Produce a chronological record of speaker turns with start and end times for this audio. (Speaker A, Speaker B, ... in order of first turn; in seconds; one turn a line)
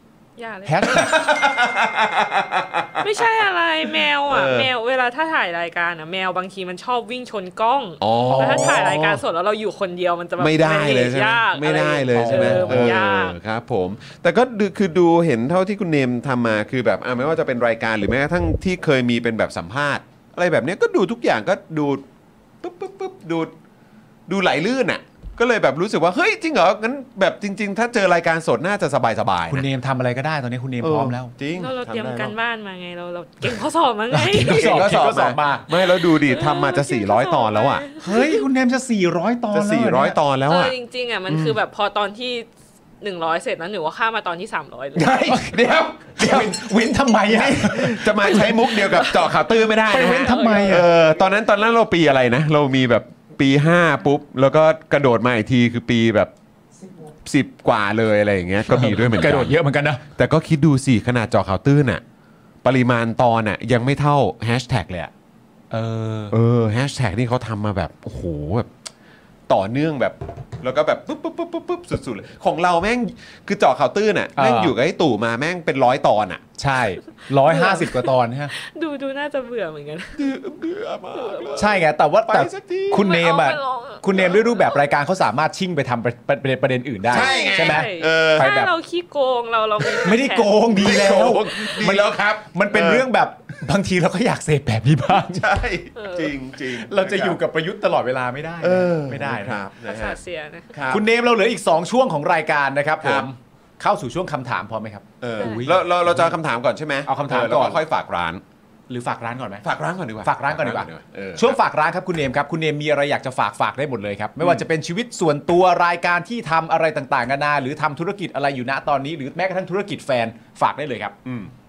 Speaker A: 0.4-1.2
Speaker B: 0.7-1.2
Speaker C: 0.8-3.2
Speaker A: 3.0-13.4
Speaker C: 4.2-4.7
Speaker C: 8.0-9.2
Speaker B: 8.3-8.9
Speaker C: 10.4-22.0
Speaker B: 12.1-13.0
Speaker C: 22.6-23.5
Speaker C: 24.3-29.6
Speaker B: 29.5-31.3
Speaker C: 30.8-32.4
Speaker A: 31.5-34.9
Speaker B: 34.1-35.7
Speaker C: 34.4-37.9
Speaker A: 36.0-38.5
Speaker B: 38.0-40.2
Speaker C: 39.5-40.7
Speaker A: 40.5-42.5
Speaker C: 41.3-41.6
Speaker A: 43.0-45.1
Speaker C: 45.0-46.7
Speaker B: 45.1-45.6
Speaker B: 46.2-48.6
Speaker C: 47.3-56.3
Speaker A: 48.2-51.0
Speaker B: 49.9-50.9
Speaker C: 57.2-59.6
Speaker B: 58.7-60.0
Speaker C: 60.1-62.0
Speaker C: 62.6-65.1
Speaker B: 65.7-66.3
Speaker C: 66.3-68.7
Speaker C: 69.5-76.4
Speaker B: 74.4-74.8
Speaker B: 76.6-78.5
Speaker A: 77.4-80.3
Speaker C: 80.2-83.1
Speaker A: 81.1-81.7
Speaker B: 81.6-88.7
Speaker A: 82.9-84.8
Speaker C: 87.1-88.5
Speaker A: 87.1-91.1
Speaker B: 90.0-95.6
Speaker C: 90.7-93.1
Speaker C: 95.1-97.4
Speaker A: 96.0-96.4
Speaker B: 96.6-99.6
Speaker C: 98.6-100.2
Speaker A: 99.8-100.7
Speaker C: 100.7-101.0
Speaker B: 100.9-106.4
Speaker C: 103.0-103.3
Speaker C: 105.2-108.4
Speaker A: 105.4-105.8
Speaker B: 107.0-107.8
Speaker B: 108.9-109.7
Speaker C: 109.6-111.6
Speaker B: 110.2-121.2
Speaker C: 114.4-114.7
Speaker C: 121.2-121.5